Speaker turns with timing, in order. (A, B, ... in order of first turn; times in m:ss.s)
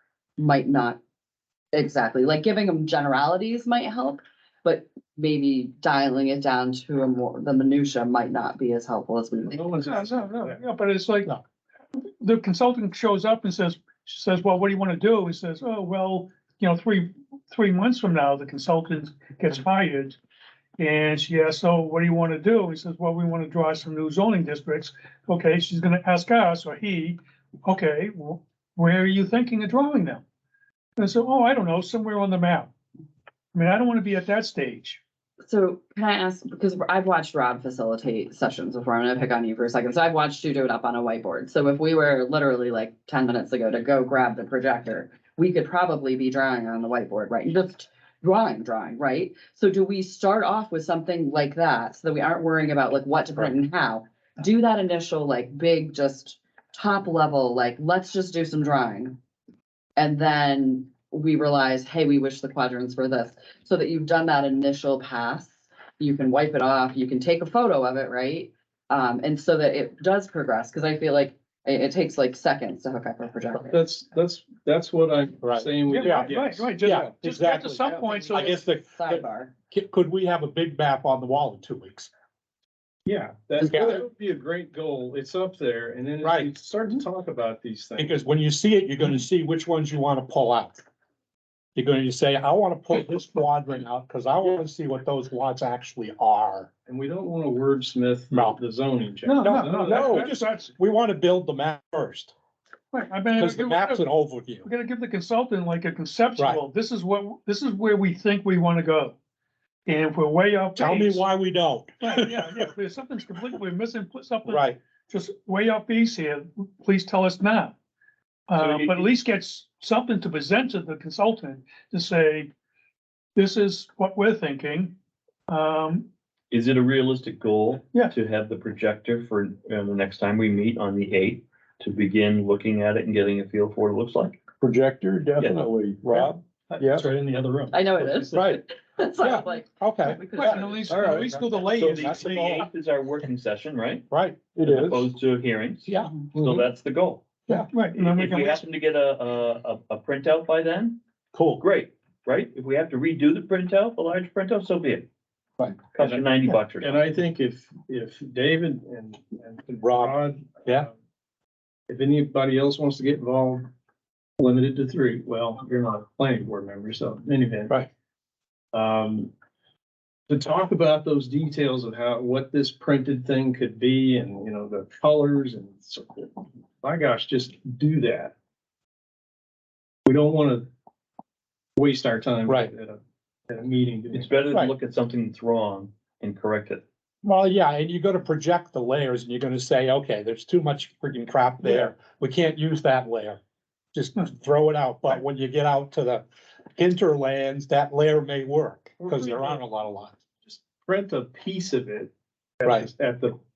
0:00.4-0:01.0 A
0:01.7-0:09.6 A
0:09.5-0:10.6 B
0:09.8-0:11.3 C
0:12.0-0:20.2 C
0:20.8-0:30.2 C
0:31.0-0:32.7 C
0:33.5-0:35.0 C
0:35.5-0:59.2 A
1:00.0-1:13.8 A
1:13.6-1:17.1 B
1:15.4-1:22.1 D
1:15.9-1:18.5 C
1:18.0-1:19.5 A
1:23.1-1:28.2 B
1:23.6-1:24.1 D
1:26.2-1:26.5 D
1:28.0-1:30.8 D
1:31.8-1:36.7 D
1:36.9-1:40.3 B
1:38.3-1:38.6 D
1:39.2-1:40.7 C
1:39.4-1:42.3 D
1:42.9-1:44.0 C
1:43.3-1:44.7 D
1:44.6-1:49.2 C
1:49.8-1:51.2 C
1:50.8-1:52.7 D
1:52.0-1:57.8 C
1:54.4-1:54.8 D
1:58.5-2:02.5 C
1:58.6-1:59.1 E
2:03.4-2:04.9 C
2:05.5-2:06.1 C
2:06.5-2:14.4 E
2:14.6-2:17.0 F
2:15.4-2:15.7 E
2:16.0-2:18.4 B
2:17.7-2:21.1 A
2:18.3-2:18.6 D
2:19.2-2:21.0 D
2:20.3-2:22.6 C
2:20.9-2:21.3 B
2:21.6-2:24.1 E
2:21.9-2:22.7 D
2:24.1-2:24.5 D
2:24.6-2:25.1 F
2:24.6-2:27.3 E
2:25.9-2:26.1 D
2:26.4-2:26.7 B
2:27.5-2:28.6 C
2:28.0-2:31.0 E
2:31.3-2:31.6 D
2:31.6-2:35.1 E
2:35.9-2:37.0 E
2:36.0-2:40.9 B
2:39.8-2:40.9 D
2:41.9-2:43.7 B
2:44.4-2:47.8 B
2:48.7-2:49.3 B
2:50.3-2:58.3 B
3:00.0-3:00.7 B
3:01.8-3:04.3 B
3:02.5-3:02.7 D
3:04.1-3:06.8 E
3:07.2-3:13.4 D
3:14.0-3:16.2 D
3:16.8-3:20.2 D
3:19.1-3:19.5 B
3:20.4-3:23.4 B
3:22.6-3:22.9 D